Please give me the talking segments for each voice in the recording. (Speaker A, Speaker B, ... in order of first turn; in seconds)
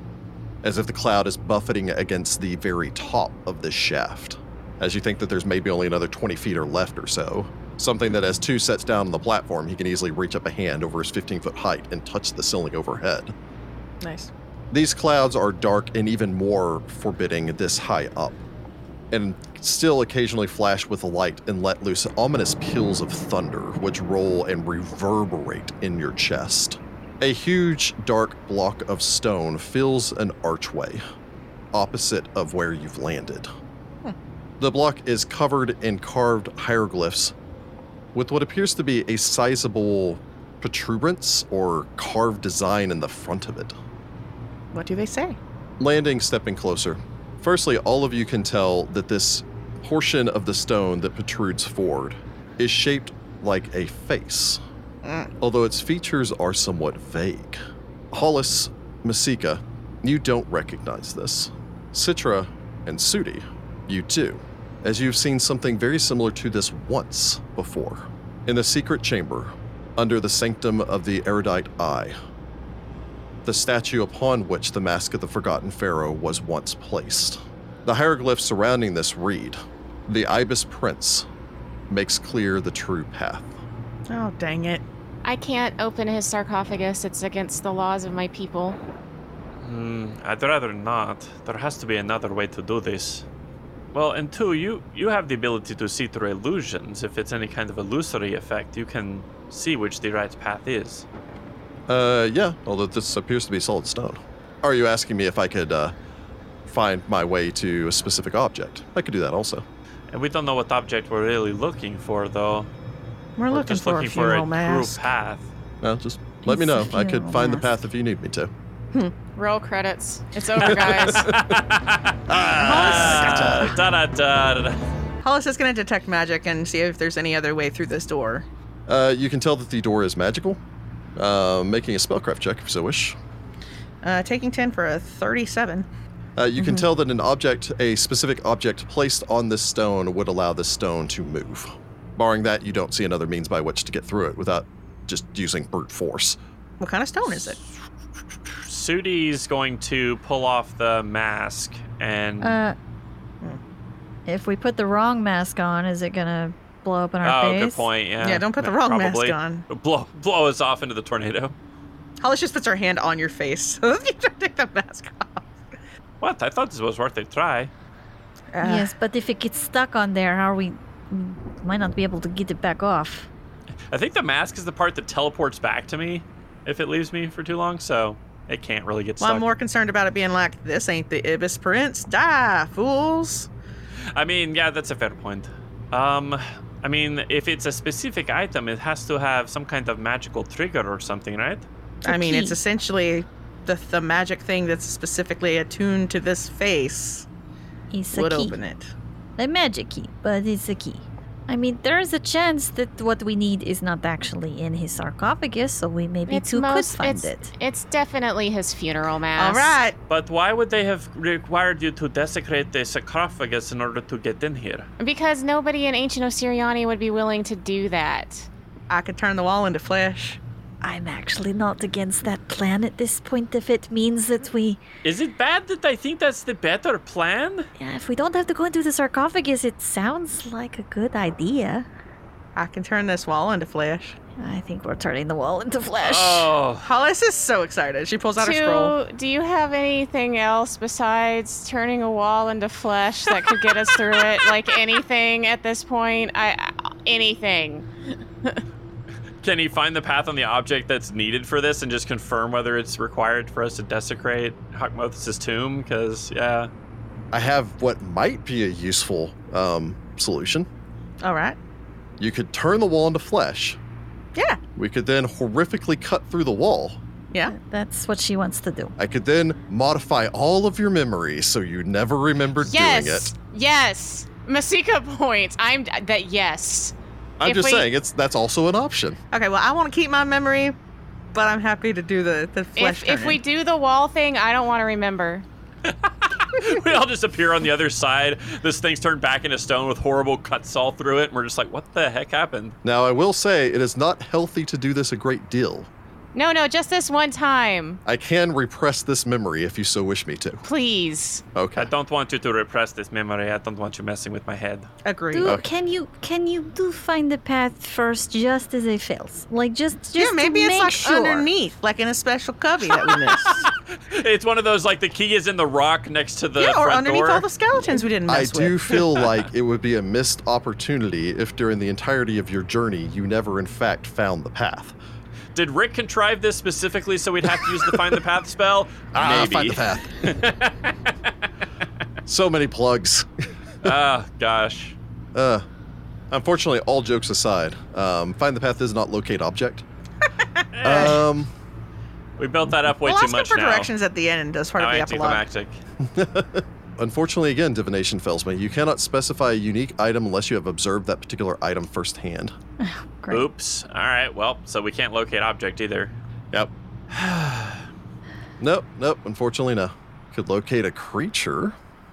Speaker A: 0.6-13.3, 14.7-18.4, 19.1-31.0, 31.7-33.5, 34.6-37.3, 38.1-43.7, 45.8-54.6, 55.4-57.6, 58.1-72.2, 73.4-81.3, 81.9-83.5, 101.9-105.9, 106.7-109.6, 115.8-118.5, 120.6-121.5, 122.3-123.7, 128.9-130.6, 131.2-133.2, 136.4-146.4, 257.3-260.7, 262.2-263.8, 264.8-267.0, 269.0-273.3, 277.4-279.2, 292.8-295.9, 298.0-300.6, 301.5-301.9, 318.3-324.9, 327.6-328.1, 329.1-330.3, 332.2-333.3, 335.3-335.6, 336.3-339.9, 340.8-341.5, 346.0-352.5, 358.6-361.8
Speaker B: 14.0-14.3, 44.7-45.4, 55.0-55.3, 84.1-84.8, 113.4-115.0, 122.5-123.7, 125.2-128.4, 134.0-135.9, 146.8-147.6, 158.2-159.7, 162.2-165.5, 168.5-168.9, 179.2-183.5, 192.0-197.2, 198.1-198.9, 209.3-210.0, 218.9-220.4, 232.6-234.2, 236.8-238.9, 261.2-261.6, 264.3-264.6, 279.3-280.7, 281.3-283.4, 305.0-305.5, 310.1-313.7, 316.6-319.0, 340.8-341.1, 343.0-345.4
Speaker C: 85.2-88.8, 119.3-121.3, 206.3-209.8, 215.0-218.5, 238.4-247.8, 272.6-277.9, 282.8-285.4, 296.3-298.0, 300.6-301.4
Speaker D: 89.6-93.2, 93.9-101.0, 110.1-112.7, 113.5-115.5, 120.6-124.8, 148.5-152.6, 157.2-161.5, 166.2-167.7, 173.9-179.5, 184.1-191.7, 210.1-214.9, 225.0-227.7, 236.0-236.9, 249.4-256.7, 285.8-292.8, 301.8-304.9, 313.4-317.5, 325.5-331.3, 333.8-334.9, 340.9-341.1, 342.4-343.9, 344.8-345.8, 353.3-356.1, 357.1-357.8
Speaker E: 116.5-117.7, 152.4-152.8, 154.2-157.9, 168.6-173.3, 192.1-192.6, 197.9-198.6, 199.4-207.5, 220.8-224.8, 227.8-231.9, 234.4-236.5, 267.5-268.9, 305.3-311.5, 352.8-353.5